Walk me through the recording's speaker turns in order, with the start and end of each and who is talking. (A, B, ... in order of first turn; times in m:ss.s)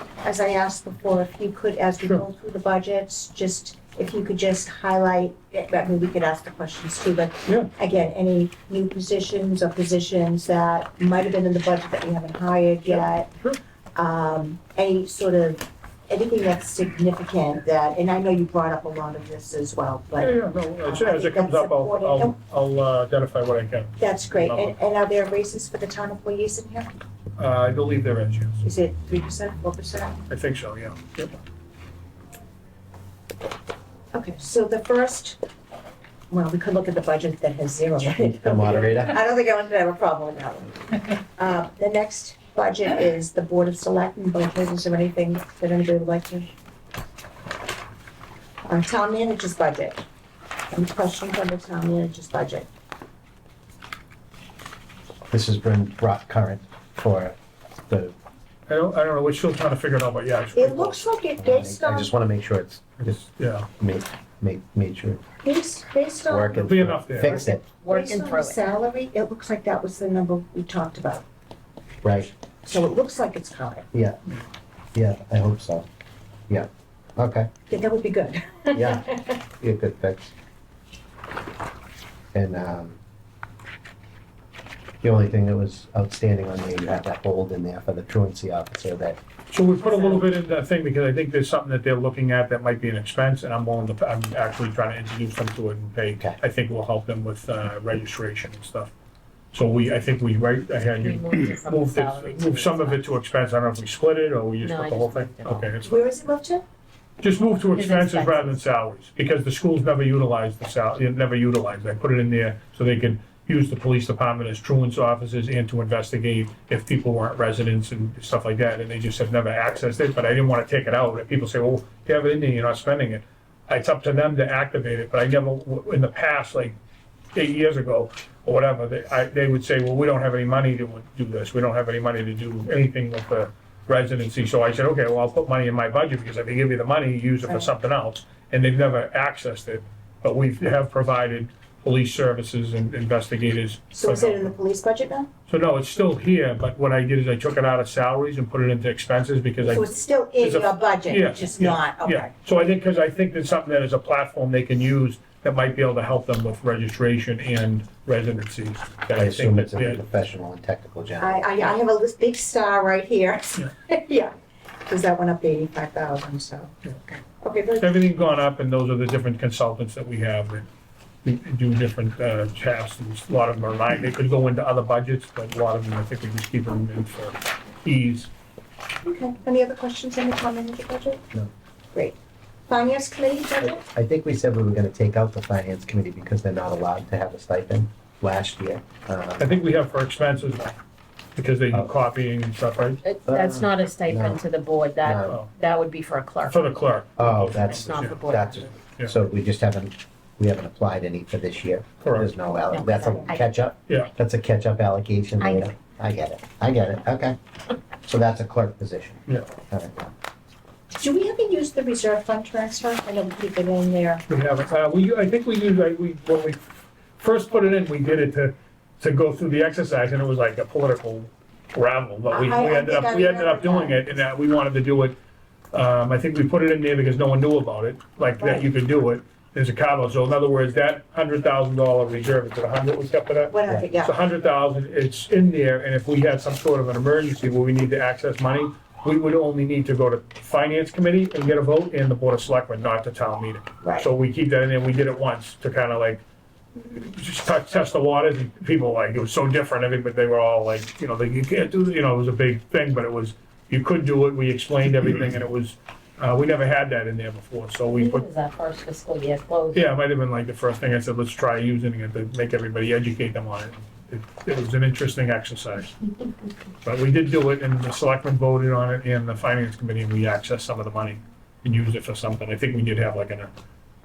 0:00.2-0:13.3 A
0:12.8-0:13.6 B
0:14.0-0:22.4 A
0:20.2-0:24.8 B
0:24.0-0:26.9 A
0:27.4-0:28.6 B
0:28.6-0:30.2 A
0:30.3-0:31.4 B
0:34.1-0:35.4 A
0:36.3-0:46.5 A
0:38.4-0:39.2 C
0:48.6-0:50.0 A
0:50.7-0:52.7 A
0:55.3-0:57.4 C
0:57.9-0:58.1 C
0:58.7-1:01.0 B
1:00.6-1:02.1 A
1:01.4-1:03.2 C
1:03.0-1:03.7 B
1:03.8-1:05.2 C
1:05.4-1:06.7 A
1:06.3-1:07.6 C
1:06.6-1:07.4 B
1:07.2-1:11.2 A
1:07.8-1:08.6 D
1:12.0-1:12.3 C
1:12.6-1:13.9 A
1:13.9-1:14.2 C
1:14.9-1:15.9 C
1:16.5-1:17.5 C
1:17.7-1:19.1 A
1:18.7-1:20.3 C
1:22.3-1:23.0 C
1:25.0-1:29.2 C
1:29.5-1:38.9 B
1:29.8-1:30.2 A
1:39.5-1:46.0 B
1:41.0-1:43.1 D
1:44.6-1:45.7 D
1:45.8-1:46.6 A
1:47.2-2:06.7 B
1:47.6-1:48.6 D
2:07.3-2:24.5 B
2:17.5-2:17.7 A
2:23.9-2:25.3 A
2:25.5-2:40.0 B
2:29.6-2:32.3 A
2:39.1-2:41.5 C
2:41.2-2:44.3 A
2:44.9-2:47.9 A
2:47.8-2:50.7 B
2:51.2-2:58.3 B
2:59.0-3:01.2 A
3:02.7-3:03.8 A
3:03.6-3:09.5 C
3:09.4-3:10.8 B
3:11.3-3:13.0 B
3:13.0-3:16.7 D
3:13.3-3:14.4 C
3:15.0-3:15.4 C
3:15.2-3:15.5 B
3:16.5-3:18.2 B
3:17.2-3:27.4 C
3:17.5-3:18.8 D
3:22.0-3:22.3 B
3:22.7-3:23.5 D
3:22.9-3:23.3 A
3:25.4-3:25.7 D
3:28.0-3:30.1 C
3:31.0-3:34.2 A
3:34.3-3:45.2 B
3:42.3-3:44.2 A
3:45.7-4:06.2 B
3:48.4-3:48.6 A
3:53.5-3:54.2 A
4:03.8-4:04.1 A
4:06.8-4:18.3 B
4:17.9-4:19.9 D
4:19.7-4:26.0 B
4:26.8-4:33.5 B